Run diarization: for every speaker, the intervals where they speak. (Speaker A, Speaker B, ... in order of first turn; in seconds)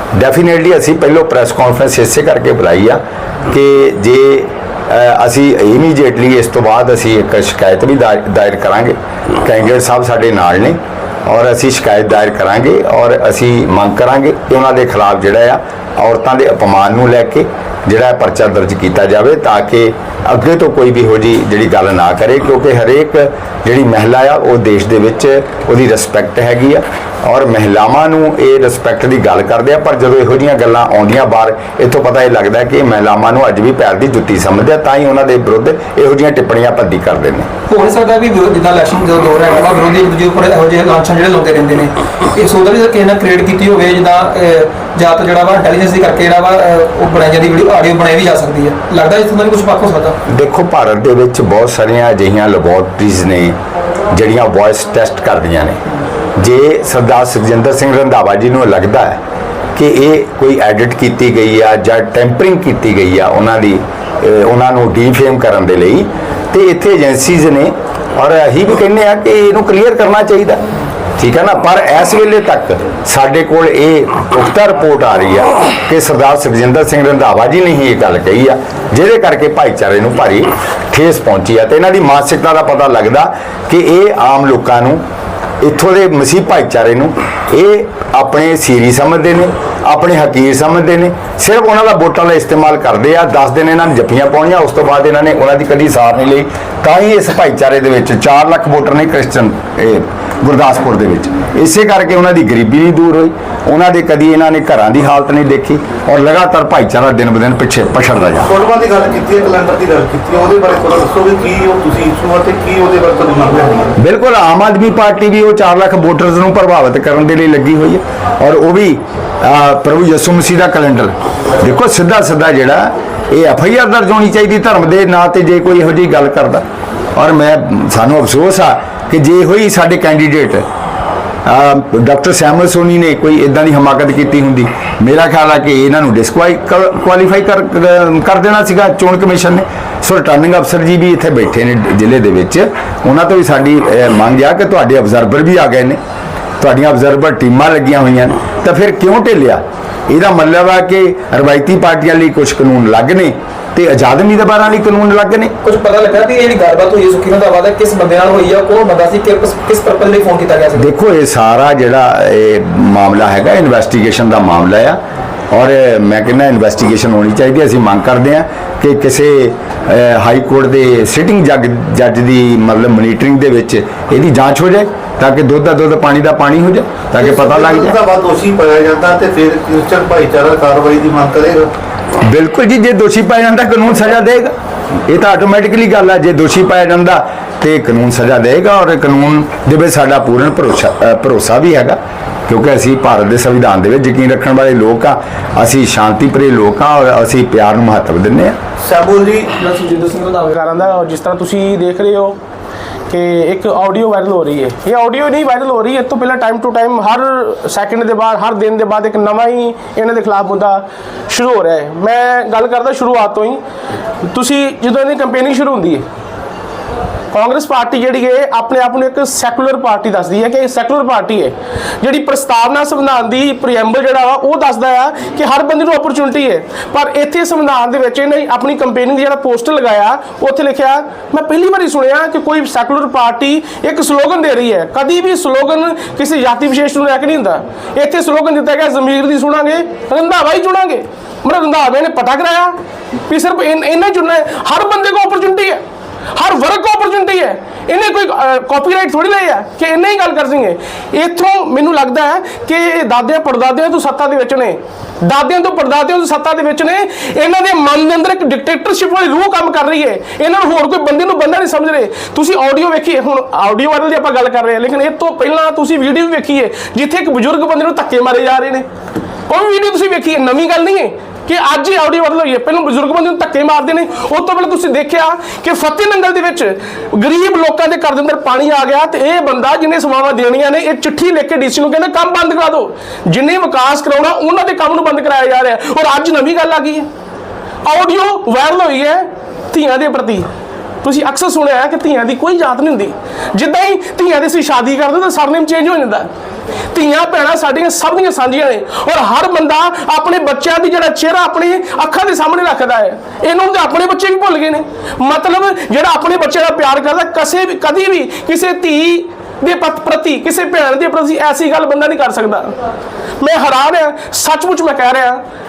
Speaker A: 0.1-37.5, 50.3-53.6, 54.1-55.8, 56.4-59.2, 59.8-70.6, 71.2-85.0, 85.6-108.5, 114.0-126.6, 127.2-130.7, 131.4-146.0, 146.6-155.6, 160.8-165.0, 165.5-178.0, 182.2-184.5, 185.1-198.6
Speaker B: 37.7-50.2, 155.6-160.9, 199.7-200.2
Speaker C: 108.4-113.9, 177.2-181.7, 198.8-199.5
Speaker D: 199.7-202.4, 203.1-213.6, 214.2-216.0, 217.3-242.8, 243.3-245.8, 246.3-268.9, 269.5-287.1, 287.8-290.5, 291.0-296.3, 296.9-312.8, 313.4-315.4